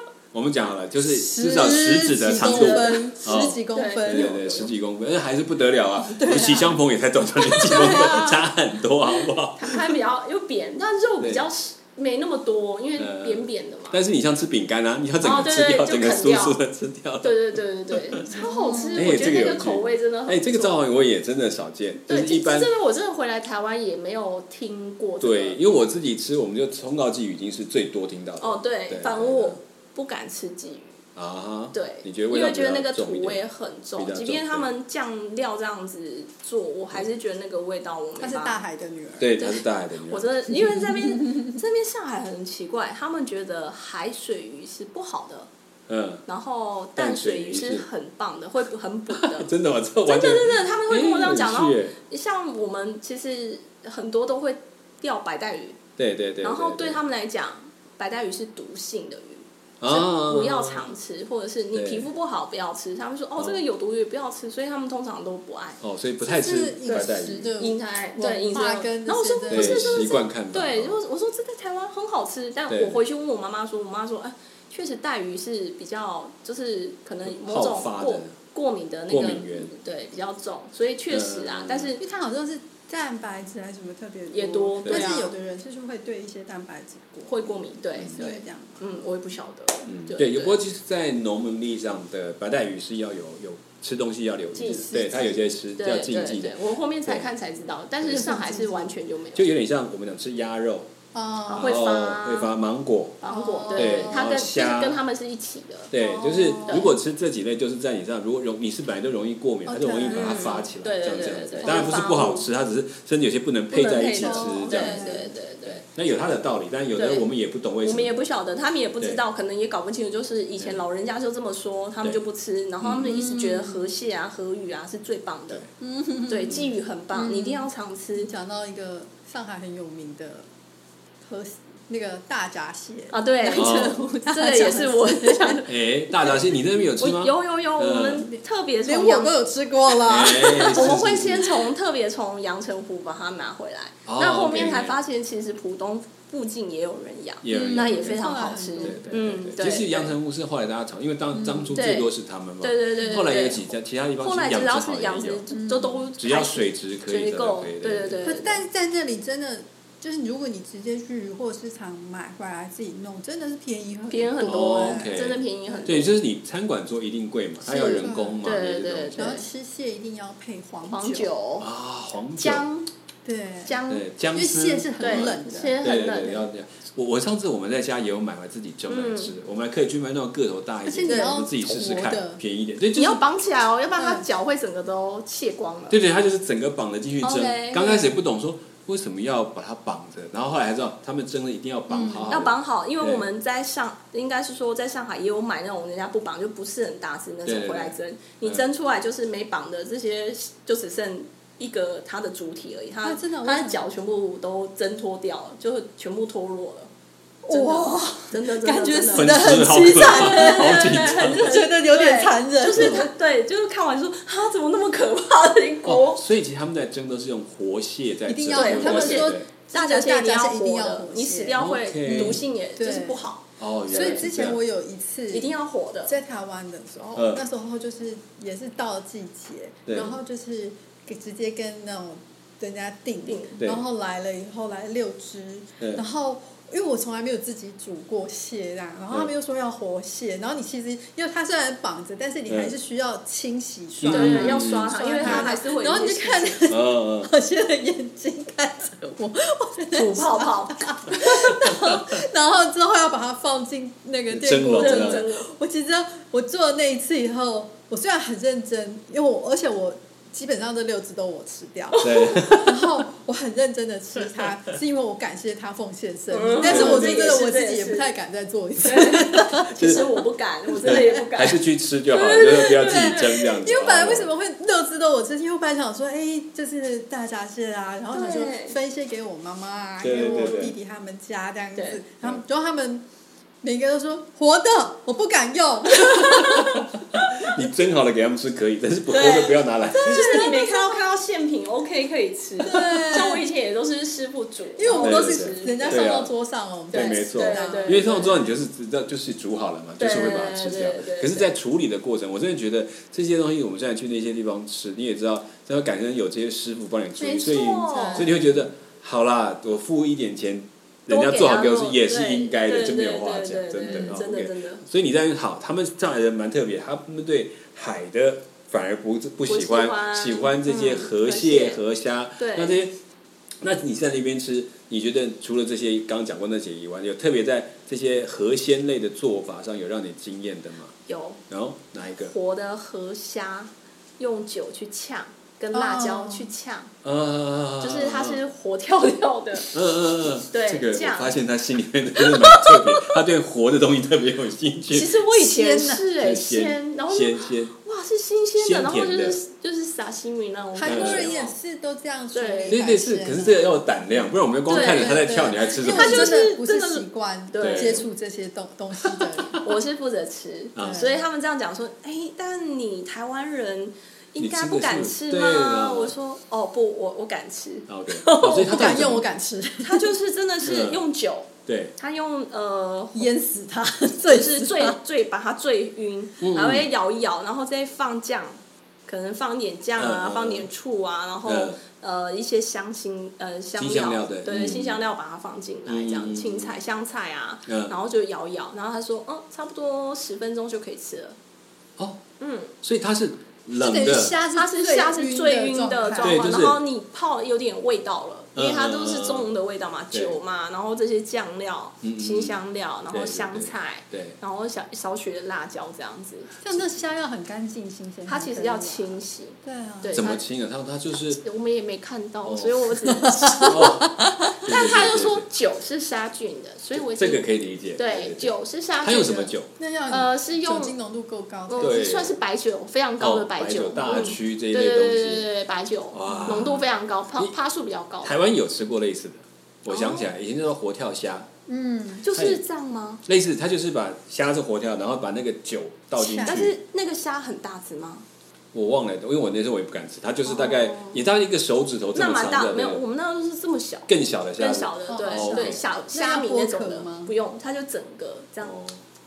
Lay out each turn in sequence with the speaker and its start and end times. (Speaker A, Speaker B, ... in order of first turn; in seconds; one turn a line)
Speaker A: 0.3-9.9
Speaker B: 1.0-4.7
Speaker C: 2.3-3.2
Speaker C: 3.7-4.4
Speaker B: 6.1-6.8
Speaker C: 7.5-8.3
Speaker B: 7.5-8.4
Speaker C: 9.6-14.0
Speaker A: 11.2-11.4
Speaker A: 13.0-17.4
Speaker C: 15.2-16.6
Speaker C: 17.2-20.8
Speaker A: 17.9-18.3
Speaker B: 18.3-19.3
Speaker A: 18.9-22.7
Speaker C: 22.1-25.6
Speaker A: 25.2-29.6
Speaker C: 28.4-31.0
Speaker A: 31.1-33.4
Speaker C: 31.7-38.6
Speaker A: 34.0-34.7
Speaker B: 38.2-39.3
Speaker A: 39.2-40.3
Speaker C: 39.4-45.5
Speaker B: 40.6-41.5
Speaker A: 45.9-46.2
Speaker C: 46.2-49.5
Speaker A: 47.0-47.8
Speaker A: 49.1-51.9
Speaker C: 50.0-55.8
Speaker A: 56.0-57.0
Speaker C: 56.4-65.8
Speaker A: 59.8-60.9
Speaker A: 61.7-62.1
Speaker A: 65.8-67.5
Speaker B: 66.2-70.1
Speaker C: 66.9-82.0
Speaker A: 69.5-71.0
Speaker A: 72.7-73.0
Speaker A: 77.2-78.3
Speaker A: 79.1-79.7
Speaker A: 81.1-81.9
Speaker B: 82.0-87.6
Speaker C: 84.3-85.3
Speaker A: 84.8-85.1
Speaker C: 87.3-90.6
Speaker B: 88.1-88.8
Speaker A: 89.9-97.3
Speaker C: 94.5-94.9
Speaker B: 94.6-95.5
Speaker C: 95.8-99.5
Speaker A: 98.0-98.3
Speaker B: 98.1-98.9
Speaker A: 99.3-100.9
Speaker B: 101.1-101.8
Speaker C: 101.5-102.5
Speaker A: 101.5-103.2
Speaker C: 103.2-105.9
Speaker B: 103.2-104.2
Speaker A: 103.7-105.0
Speaker A: 105.9-118.1
Speaker B: 106.0-106.8
Speaker C: 106.6-106.9
Speaker B: 109.7-110.5
Speaker C: 110.1-112.5
Speaker B: 111.6-112.2
Speaker C: 113.7-115.8
Speaker B: 114.1-115.3
Speaker C: 116.9-117.2
Speaker C: 117.8-125.6
Speaker A: 122.8-123.2
Speaker B: 123.1-123.9
Speaker B: 125.8-126.6
Speaker C: 126.3-128.3
Speaker B: 127.1-130.4
Speaker B: 131.2-135.6
Speaker C: 133.1-136.4
Speaker A: 133.5-134.0
Speaker A: 135.7-138.3
Speaker C: 137.0-139.3
Speaker B: 138.8-141.0
Speaker A: 140.0-141.5
Speaker C: 140.2-150.1
Speaker A: 144.1-145.0
Speaker A: 147.4-148.2
Speaker B: 147.5-149.3
Speaker A: 148.8-155.4
Speaker B: 151.3-151.8
Speaker C: 151.7-158.6
Speaker B: 153.0-153.2
Speaker B: 155.5-156.1
Speaker A: 156.2-158.2
Speaker B: 158.2-165.9
Speaker C: 164.1-166.1
Speaker A: 164.4-169.3
Speaker B: 167.6-168.4
Speaker C: 167.8-169.4
Speaker B: 169.1-171.3
Speaker C: 170.9-171.7
Speaker A: 171.6-172.7
Speaker C: 172.4-172.9
Speaker B: 173.2-173.8
Speaker C: 173.6-174.0
Speaker A: 173.9-183.2
Speaker B: 174.3-175.8
Speaker C: 175.0-176.4
Speaker C: 178.9-179.3
Speaker B: 180.8-182.4
Speaker C: 181.1-181.3
Speaker C: 182.9-186.0
Speaker B: 183.9-184.2
Speaker A: 185.9-193.3
Speaker C: 187.2-188.1
Speaker B: 191.9-192.4
Speaker C: 192.3-206.9
Speaker A: 197.4-198.6
Speaker B: 203.0-203.9
Speaker B: 207.4-213.1
Speaker C: 207.5-216.2
Speaker A: 209.1-211.5
Speaker A: 212.7-213.0
Speaker A: 215.8-219.4
Speaker B: 218.3-223.3
Speaker C: 218.5-224.2
Speaker A: 221.6-222.4
Speaker A: 223.6-224.6
Speaker B: 223.9-225.5
Speaker C: 225.3-226.1
Speaker B: 226.1-270.2
Speaker A: 227.2-227.4
Speaker A: 229.9-230.2
Speaker C: 233.2-233.6
Speaker A: 242.5-242.7
Speaker A: 244.0-245.5
Speaker C: 244.1-246.6
Speaker A: 246.7-247.3
Speaker C: 249.9-251.2
Speaker A: 251.7-252.2
Speaker A: 254.3-255.2
Speaker C: 254.8-255.5
Speaker A: 262.0-263.0
Speaker C: 266.3-268.1
Speaker A: 266.6-267.3
Speaker C: 268.8-273.7
Speaker A: 269.7-270.0
Speaker B: 270.8-271.2
Speaker A: 270.8-274.3
Speaker B: 272.8-283.0
Speaker C: 278.1-278.8
Speaker A: 280.0-280.7
Speaker C: 281.8-282.0
Speaker B: 283.6-286.8
Speaker C: 285.9-287.3
Speaker A: 286.4-290.4
Speaker C: 289.1-296.1
Speaker B: 290.0-291.0
Speaker B: 292.6-293.4
Speaker B: 294.8-298.2
Speaker A: 295.0-296.3
Speaker C: 296.9-298.5
Speaker A: 296.9-322.9
Speaker C: 300.0-301.5
Speaker C: 307.2-308.3
Speaker B: 307.9-308.7
Speaker C: 311.1-314.8
Speaker C: 319.5-321.8
Speaker C: 322.4-322.8
Speaker A: 323.6-330.9
Speaker C: 331.1-331.4
Speaker A: 331.5-332.3
Speaker C: 332.2-336.9
Speaker B: 335.7-336.5
Speaker A: 337.0-338.4
Speaker C: 337.8-339.7
Speaker A: 339.7-345.1
Speaker C: 340.5-341.4
Speaker C: 342.2-343.1
Speaker C: 344.9-351.5
Speaker B: 345.3-346.1
Speaker A: 346.2-347.7
Speaker A: 348.6-349.4
Speaker B: 350.7-354.1
Speaker A: 350.8-351.3
Speaker C: 352.3-352.8
Speaker A: 352.7-356.5
Speaker C: 354.7-358.1
Speaker B: 354.7-359.7
Speaker A: 357.6-358.1
Speaker C: 359.5-368.9
Speaker A: 360.8-361.1
Speaker B: 360.8-361.2
Speaker A: 364.4-366.1
Speaker A: 367.9-369.2
Speaker B: 368.4-370.1
Speaker C: 369.8-373.3
Speaker A: 370.6-371.0
Speaker A: 371.6-371.9
Speaker B: 373.1-375.0
Speaker C: 374.3-391.4
Speaker A: 376.4-376.9
Speaker A: 380.0-380.7
Speaker A: 381.4-381.8
Speaker A: 383.8-385.0
Speaker A: 385.9-386.8
Speaker A: 387.7-387.9
Speaker C: 392.4-392.7
Speaker A: 392.8-394.4
Speaker B: 393.7-396.6
Speaker C: 394.5-406.9
Speaker A: 396.2-396.8
Speaker A: 398.5-399.5
Speaker A: 400.1-400.4
Speaker A: 402.0-402.6
Speaker A: 403.1-404.4
Speaker B: 406.6-410.2
Speaker C: 408.3-410.4
Speaker A: 410.1-411.4
Speaker C: 411.4-413.9
Speaker A: 412.4-412.9
Speaker B: 413.2-414.6
Speaker A: 413.6-415.4
Speaker C: 414.6-419.5
Speaker A: 416.9-419.7
Speaker B: 419.8-422.1
Speaker C: 420.1-420.9
Speaker C: 421.7-428.4
Speaker A: 421.8-422.3
Speaker A: 423.2-425.5
Speaker A: 426.1-426.8
Speaker B: 426.2-426.8
Speaker A: 428.2-431.5
Speaker C: 429.9-430.3
Speaker B: 431.7-432.2
Speaker C: 432.2-433.2
Speaker A: 432.3-432.6
Speaker A: 433.2-436.7
Speaker B: 436.2-436.7
Speaker C: 436.4-438.2
Speaker A: 438.7-443.0
Speaker C: 440.5-441.2
Speaker C: 442.1-448.8
Speaker A: 444.1-445.8
Speaker B: 445.1-447.3
Speaker A: 448.6-449.0